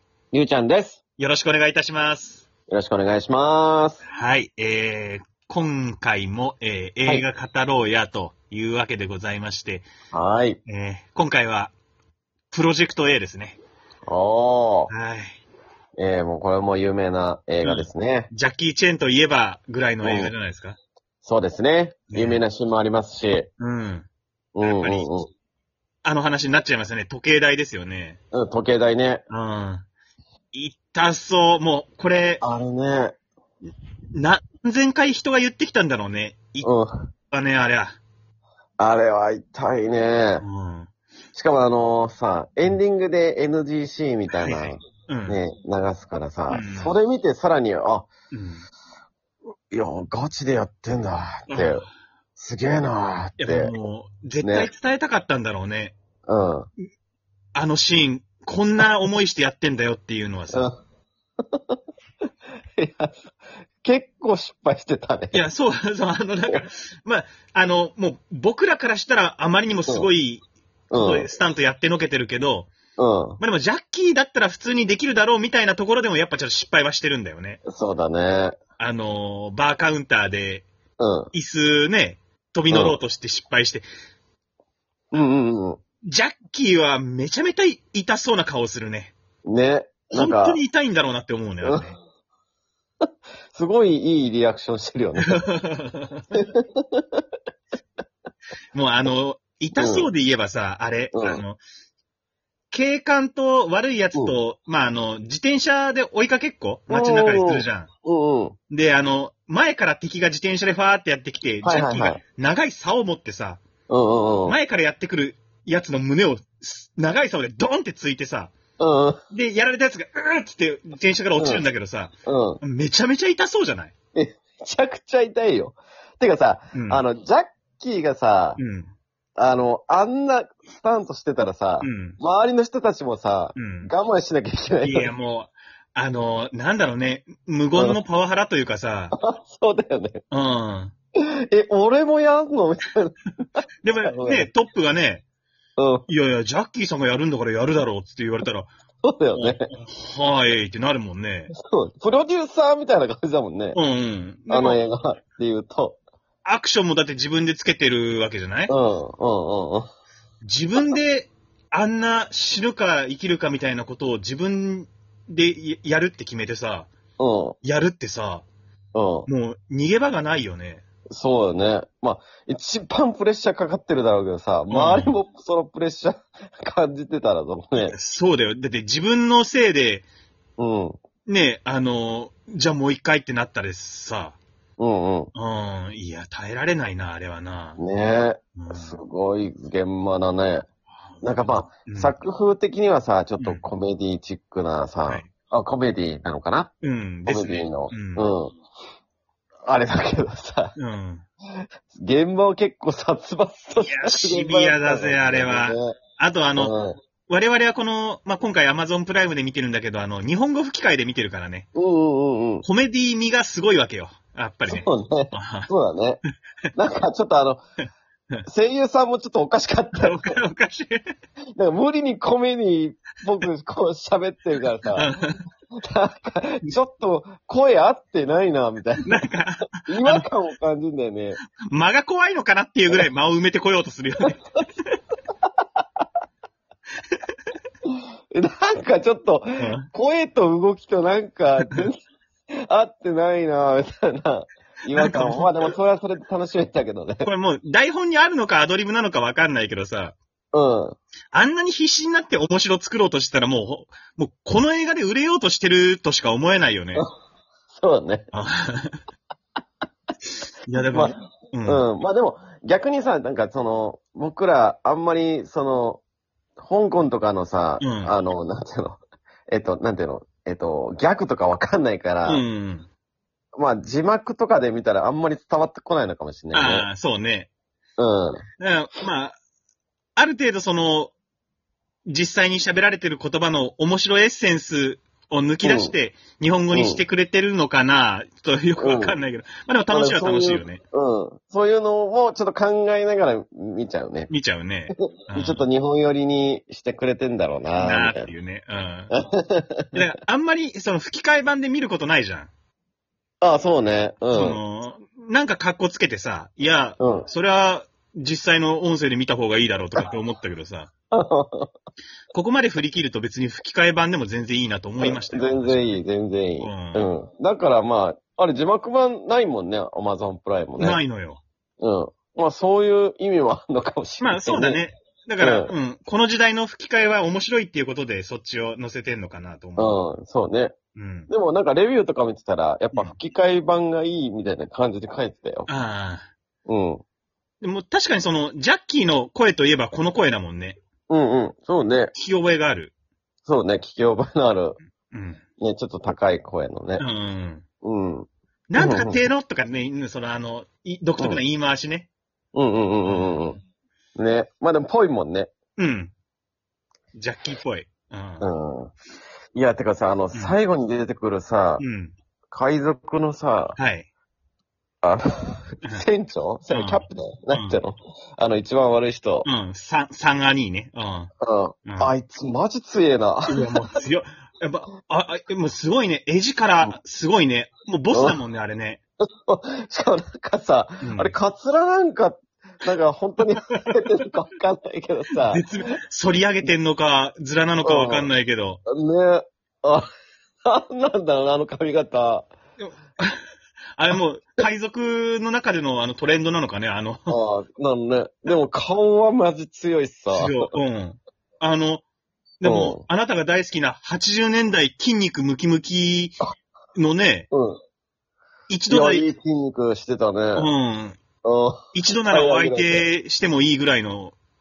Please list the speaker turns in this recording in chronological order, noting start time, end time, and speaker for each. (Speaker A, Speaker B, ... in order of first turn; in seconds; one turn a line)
Speaker A: 0.3-1.0
Speaker B: 1.2-2.5
Speaker A: 2.7-4.0
Speaker B: 4.1-9.9
Speaker A: 10.1-10.6
Speaker B: 10.7-11.7
Speaker B: 12.5-13.6
Speaker A: 14.1-14.9
Speaker B: 14.9-15.4
Speaker A: 16.0-18.3
Speaker B: 17.6-20.8
Speaker A: 20.0-20.3
Speaker A: 21.2-23.5
Speaker B: 22.1-22.4
Speaker B: 23.6-24.1
Speaker A: 24.6-25.3
Speaker B: 24.6-25.1
Speaker B: 26.0-28.2
Speaker A: 28.3-29.2
Speaker B: 29.3-29.9
Speaker B: 30.5-32.4
Speaker A: 32.4-33.2
Speaker B: 34.1-36.7
Speaker A: 36.6-37.1
Speaker B: 37.3-38.0
Speaker A: 38.8-40.5
Speaker B: 40.4-40.9
Speaker A: 41.4-48.1
Speaker B: 44.3-45.4
Speaker B: 46.5-47.0
Speaker B: 48.3-48.7
Speaker A: 49.7-51.9
Speaker B: 51.5-51.9
Speaker A: 52.4-53.7
Speaker B: 53.4-56.0
Speaker A: 54.4-54.7
Speaker A: 56.3-56.7
Speaker B: 57.5-60.7
Speaker A: 60.5-60.8
Speaker A: 62.8-65.5
Speaker B: 65.3-72.7
Speaker A: 70.9-71.3
Speaker A: 73.0-73.4
Speaker B: 73.4-77.6
Speaker A: 77.7-78.6
Speaker B: 78.8-80.7
Speaker A: 81.0-81.3
Speaker B: 81.3-83.9
Speaker A: 82.7-83.0
Speaker A: 85.1-85.8
Speaker B: 86.0-89.1
Speaker A: 89.5-90.6
Speaker B: 90.1-92.0
Speaker A: 93.5-95.5
Speaker B: 95.3-96.3
Speaker A: 96.3-97.0
Speaker B: 98.7-101.6
Speaker A: 99.8-100.1
Speaker A: 101.1-101.4
Speaker B: 102.7-107.9
Speaker A: 106.9-108.6
Speaker B: 108.7-113.6
Speaker A: 111.6-112.2
Speaker A: 113.9-114.6
Speaker B: 114.5-118.5
Speaker A: 118.8-119.2
Speaker B: 119.3-123.9
Speaker A: 121.4-121.6
Speaker A: 122.3-122.6
Speaker A: 124.2-128.6
Speaker B: 126.7-127.0
Speaker B: 128.6-128.9
Speaker A: 129.4-135.1
Speaker B: 131.8-132.2
Speaker B: 133.6-133.9
Speaker B: 134.8-139.2
Speaker A: 139.1-140.2
Speaker B: 140.3-140.9
Speaker A: 141.2-144.5
Speaker B: 143.8-145.2
Speaker A: 145.8-146.1
Speaker B: 146.1-148.7
Speaker A: 149.0-149.7
Speaker B: 149.3-151.5
Speaker A: 151.5-153.8
Speaker B: 153.7-154.8
Speaker A: 154.5-156.0
Speaker B: 156.4-158.8
Speaker A: 158.7-159.9
Speaker B: 160.4-166.9
Speaker A: 167.2-167.6
Speaker B: 167.6-168.5
Speaker A: 168.9-169.3
Speaker B: 169.3-170.8
Speaker A: 171.1-178.0
Speaker B: 174.7-175.2
Speaker B: 177.8-180.1
Speaker A: 180.6-181.0
Speaker B: 181.3-184.4
Speaker A: 184.8-185.3
Speaker B: 185.3-187.8
Speaker A: 187.8-190.7
Speaker B: 188.6-189.0
Speaker A: 191.2-196.7
Speaker B: 191.5-192.1
Speaker B: 193.4-193.7
Speaker B: 196.8-198.3
Speaker A: 197.3-198.6
Speaker A: 199.7-200.8
Speaker B: 200.8-201.2
Speaker A: 201.9-206.0
Speaker B: 203.8-206.8
Speaker A: 206.6-207.0
Speaker B: 207.3-211.7
Speaker A: 211.8-212.7
Speaker B: 212.6-215.7
Speaker A: 214.7-216.2
Speaker A: 216.8-217.6
Speaker A: 218.5-220.4
Speaker B: 219.9-221.1
Speaker A: 221.6-225.1
Speaker B: 224.9-225.4
Speaker A: 225.8-229.2
Speaker B: 229.1-230.3
Speaker A: 229.9-231.4
Speaker B: 231.6-235.0
Speaker A: 238.3-242.0
Speaker B: 239.6-239.9
Speaker B: 241.6-241.9
Speaker A: 242.7-247.3
Speaker B: 244.9-245.7
Speaker B: 247.2-250.2
Speaker A: 250.5-251.0
Speaker B: 251.3-257.1
Speaker A: 257.8-258.3
Speaker B: 258.3-259.0
Speaker B: 260.6-261.9
Speaker A: 260.9-266.0
Speaker A: 266.6-272.4
Speaker B: 267.8-268.1
Speaker B: 272.2-272.9
Speaker A: 273.6-276.9
Speaker B: 276.5-277.5
Speaker A: 278.0-278.4
Speaker B: 278.6-279.4
Speaker B: 280.2-281.1
Speaker B: 282.1-290.8
Speaker A: 285.6-285.9
Speaker A: 286.7-287.0
Speaker A: 288.8-289.2
Speaker A: 289.9-294.3
Speaker B: 294.3-295.6
Speaker A: 294.9-298.3
Speaker B: 297.8-299.1
Speaker A: 299.1-300.0
Speaker B: 299.9-302.5
Speaker A: 303.4-304.6
Speaker B: 304.3-310.9
Speaker A: 307.0-307.3
Speaker A: 311.1-311.7
Speaker B: 312.3-316.0
Speaker A: 315.0-321.0
Speaker B: 316.6-317.1
Speaker B: 320.8-321.4
Speaker A: 321.8-324.8
Speaker B: 324.2-330.0
Speaker A: 325.4-325.7
Speaker A: 329.8-330.7
Speaker B: 330.9-331.3
Speaker A: 331.3-335.7
Speaker B: 335.7-336.3
Speaker A: 336.7-337.0
Speaker B: 337.6-340.8
Speaker A: 341.1-342.1
Speaker B: 342.1-342.9
Speaker A: 343.5-344.8
Speaker B: 345.1-345.4
Speaker A: 345.6-347.1
Speaker B: 347.0-347.6
Speaker A: 347.8-349.2
Speaker B: 348.7-352.1
Speaker A: 352.6-353.6
Speaker B: 353.1-353.5
Speaker A: 354.2-355.5
Speaker B: 355.8-356.1
Speaker B: 357.1-358.5
Speaker A: 358.4-358.9
Speaker A: 359.6-361.8
Speaker B: 361.8-362.1
Speaker A: 362.5-363.8
Speaker B: 363.8-364.1
Speaker A: 365.0-369.5
Speaker B: 366.7-367.8
Speaker B: 369.4-371.3
Speaker A: 371.4-373.9
Speaker B: 371.9-372.1
Speaker B: 373.5-379.0
Speaker A: 378.1-378.4
Speaker A: 379.2-385.7
Speaker B: 381.0-381.3
Speaker B: 385.5-388.8
Speaker A: 387.8-388.3
Speaker A: 388.9-390.1
Speaker A: 390.6-392.5
Speaker B: 392.8-393.4
Speaker B: 394.0-397.4
Speaker A: 397.3-400.7
Speaker B: 400.3-402.0
Speaker B: 402.6-406.4
Speaker A: 402.6-403.0
Speaker B: 406.9-407.5
Speaker A: 407.5-407.8
Speaker B: 408.7-409.3
Speaker A: 408.9-410.7
Speaker B: 410.6-411.2
Speaker A: 411.4-413.1
Speaker B: 411.9-414.4